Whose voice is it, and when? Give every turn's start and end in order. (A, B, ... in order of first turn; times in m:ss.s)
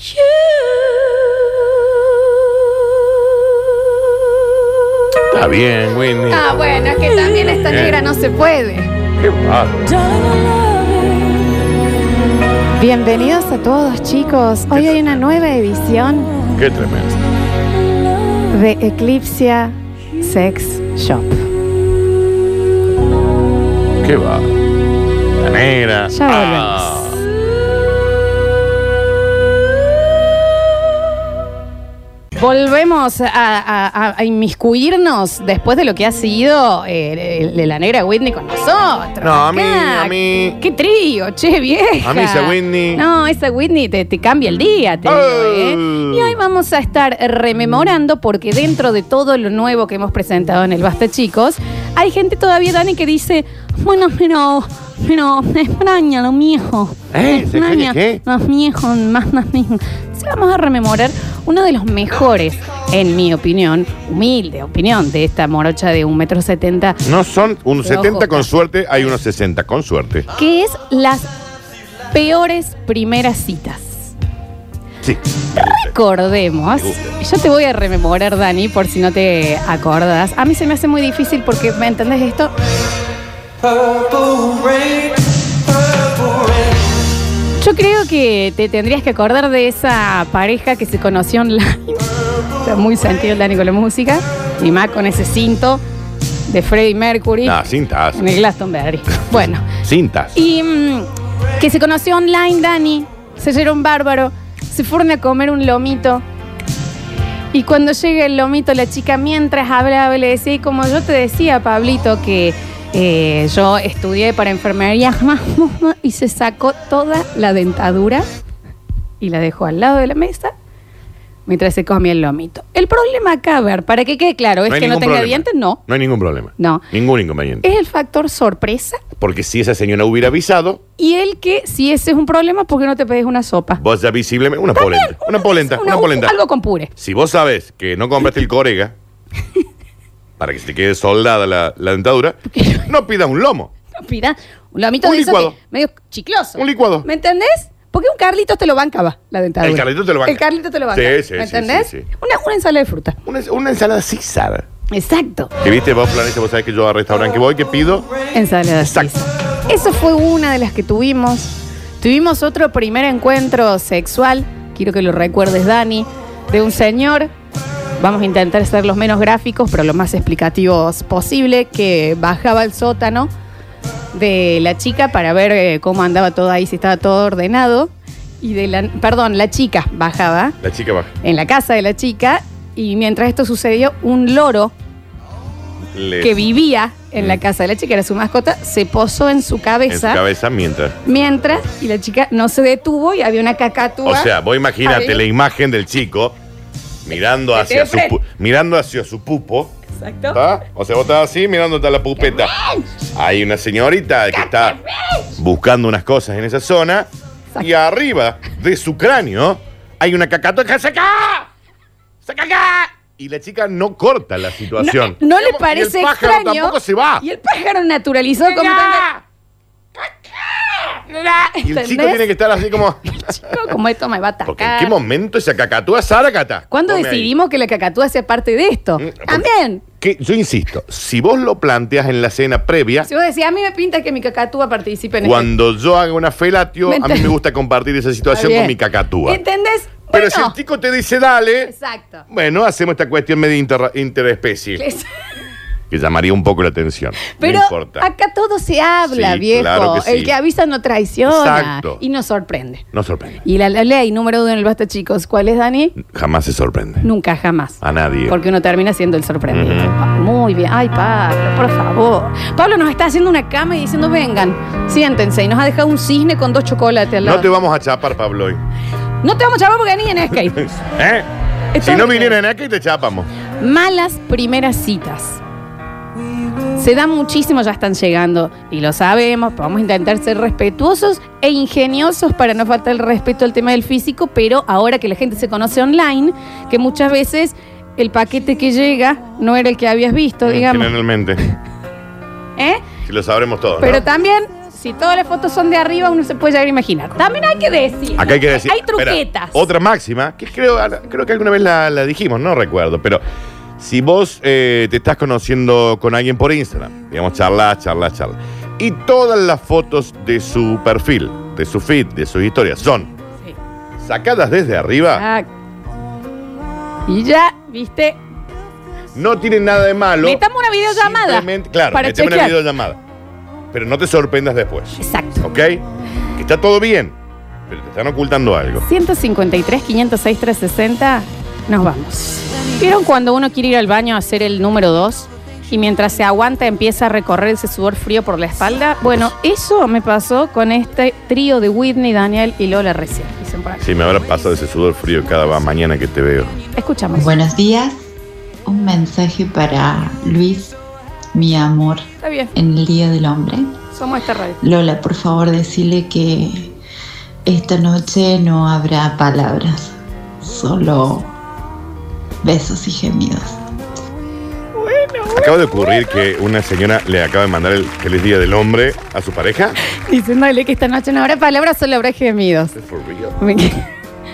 0:05.3-0:06.4 A
0:06.3-0:08.9 B
0:07.7-0:08.0 A
0:09.2-0:09.9 A
0:12.8-0:16.3 B
0:14.7-0:15.2 A
0:16.5-0:17.2 A
0:18.5-0:21.4 B
0:24.0-0:24.5 A
0:25.4-0:27.1 A
0:26.1-0:27.0 B
0:32.4-1:07.0 B
0:39.2-0:40.6 A
0:42.0-0:43.0 A
0:45.0-0:46.4 A
0:57.1-0:58.2 A
1:07.0-1:10.3 A
1:07.8-1:08.5 B
1:10.4-1:11.3 B
1:12.1-1:14.1 B
1:15.0-1:15.9 A
1:15.6-1:22.5 B
1:16.8-1:17.0 A
1:27.6-1:32.1 B
1:32.6-1:35.8 B
1:36.5-1:37.6 B
1:37.4-1:38.2 A
1:38.1-1:39.6 B
1:39.2-1:40.3 A
1:40.3-1:46.2 B
1:47.5-1:58.2 B
1:59.2-2:00.5 B
2:01.5-2:05.8 B
2:04.7-2:07.6 A
2:06.6-2:06.8 B
2:07.6-2:09.0 B
2:09.2-2:10.8 A
2:11.0-2:13.8 B
2:13.8-2:16.3 A
2:14.8-2:16.9 B
2:17.0-2:18.9 A
2:20.4-2:23.7 A
2:22.5-2:22.8 B
2:24.0-2:33.2 B
2:25.0-2:25.5 A
2:26.6-2:27.0 A
2:29.6-2:32.0 A
2:33.2-2:34.6 A
2:34.9-2:35.5 B
2:35.6-2:38.0 A
2:38.3-2:47.3 B
2:38.8-2:39.1 A
2:48.0-2:53.3 B
2:54.1-2:57.9 B
2:58.4-3:00.5 B
3:00.6-3:01.1 A
3:01.2-3:04.7 B
3:05.9-3:06.3 A
3:06.2-3:10.2 B
3:09.9-3:11.0 A
3:11.0-3:14.3 B
3:14.0-3:16.3 A
3:14.8-3:15.2 B
3:17.0-3:19.7 A
3:17.5-3:18.1 B
3:20.0-3:20.4 B
3:20.3-3:22.5 A
3:22.2-3:22.8 B
3:23.2-3:24.8 A
3:24.3-3:25.2 B
3:25.4-3:27.1 A
3:27.6-3:31.5 A
3:32.2-3:37.2 A
3:34.8-3:39.1 B
3:38.5-3:39.2 A
3:41.3-3:42.2 B
3:41.5-3:43.2 A
3:43.1-3:44.9 B
3:44.5-3:47.3 A
3:46.7-3:49.8 B
3:49.0-3:49.4 A
3:50.0-3:53.1 A
3:53.0-3:55.5 B
3:55.2-3:59.4 A
3:56.9-3:57.3 B
3:58.3-3:58.7 B
3:59.2-4:00.5 B
4:00.1-4:01.7 A
4:01.7-4:02.2 B
4:02.3-4:04.8 A
4:04.8-4:05.0 B
4:05.9-4:08.0 A
4:07.3-4:12.8 B
4:09.1-4:10.3 A
4:11.3-4:12.0 A
4:12.9-4:13.4 A
4:13.4-4:15.9 B
4:16.0-4:17.0 A
4:17.0-4:27.5 B
4:17.8-4:18.4 A
4:19.5-4:20.0 A
4:27.2-4:28.6 A
4:29.2-4:30.6 B
4:31.0-4:31.2 A
4:31.7-4:32.4 B
4:31.8-4:33.3 A
4:33.6-4:35.4 B
4:36.8-4:50.9 B
4:50.4-4:51.4 A
4:52.6-4:52.8 B
4:53.0-4:54.0 A
4:53.8-4:59.6 B
4:58.2-5:03.2 A
5:03.8-5:13.1 A
5:14.0-5:15.2 A
5:15.1-5:15.4 B
5:17.1-5:18.2 B
5:19.1-5:23.0 A
5:20.2-5:22.5 B
5:23.7-5:25.8 A
5:25.0-5:25.4 B
5:26.4-5:27.1 A
5:27.7-5:28.8 A
5:28.8-5:43.8 B
5:43.8-5:46.5 A
5:46.8-5:47.3 B
5:47.1-5:48.0 C
5:48.6-5:50.7 C
5:51.3-5:52.0 C
5:52.2-5:52.5 B
5:52.5-5:53.7 C
5:53.9-5:54.6 B
5:54.6-5:56.7 C
5:57.4-6:01.3 C
6:02.4-6:03.6 C
6:04.8-6:06.1 B
6:05.3-6:09.8 A
6:09.9-6:12.7 B
6:12.8-6:13.4 A
6:13.4-6:13.8 B